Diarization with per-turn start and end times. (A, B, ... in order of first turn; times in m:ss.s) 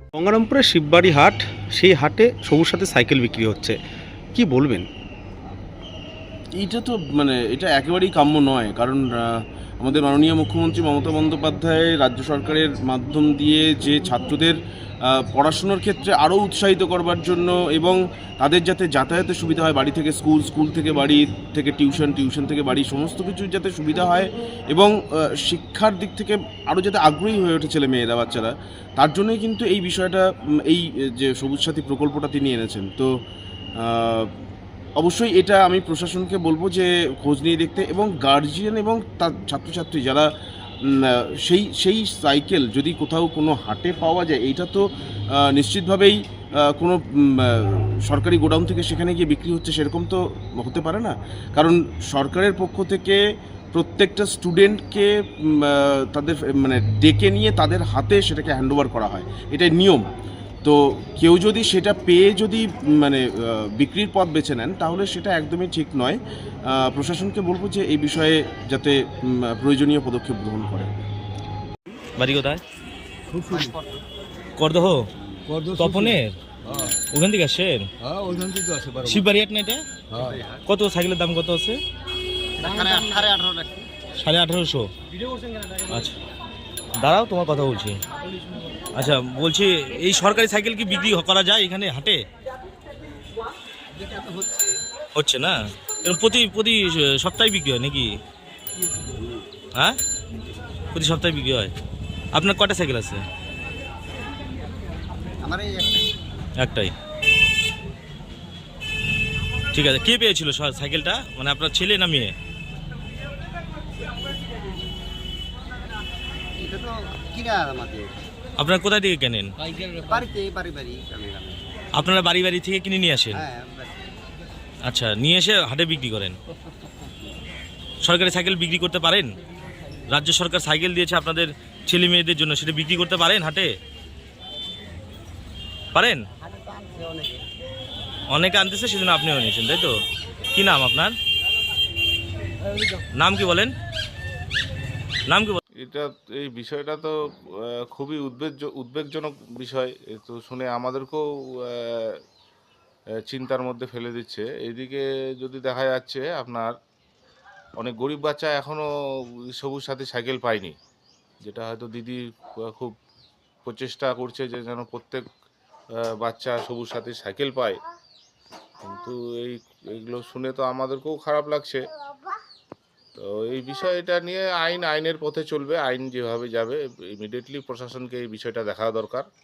0:00.2-0:03.8 A
0:04.4-0:04.9 A
0:06.6-0:33.1 B
0:33.8-0:34.3 B
0:35.0-0:40.3 B
0:40.8-0:53.2 B
0:53.7-1:00.1 B
1:00.6-1:11.1 B
1:12.2-1:12.6 C
1:13.3-1:13.7 A
1:13.5-1:14.1 D
1:14.6-1:15.0 C
1:15.5-1:17.0 A
1:15.8-1:16.3 C
1:17.1-1:17.8 C
1:18.0-1:19.3 A
1:19.0-1:19.8 C
1:20.1-1:20.4 A
1:20.3-1:20.6 D
1:20.7-1:21.8 C
1:22.6-1:23.9 D
1:24.2-1:24.9 C
1:25.9-1:26.1 C
1:27.0-1:28.0 C
1:29.0-1:32.2 C
1:33.9-1:34.8 D
1:35.2-1:38.1 C
1:40.9-1:41.7 C
1:42.3-1:43.2 C
1:45.4-1:46.4 D
1:46.6-1:46.9 C
1:49.7-1:52.3 C
1:56.6-1:58.2 D
1:58.6-1:59.5 C
2:00.0-2:01.6 D
2:02.0-2:03.4 C
2:03.3-2:04.1 D
2:04.9-2:06.4 C
2:08.0-2:09.3 C
2:10.1-2:13.7 C
2:15.9-2:16.2 C
2:16.4-2:17.5 D
2:18.3-2:19.9 C
2:20.5-2:21.1 C
2:23.2-2:23.7 C
2:25.3-2:25.6 C
2:25.8-2:27.1 E
2:27.7-2:32.2 E
2:33.3-2:36.7 E
2:37.8-2:38.8 E
2:39.6-2:40.8 E
2:41.4-2:43.0 E
2:43.6-2:45.3 E
2:46.2-2:47.8 E
2:48.8-2:51.9 E
2:53.2-2:59.3 E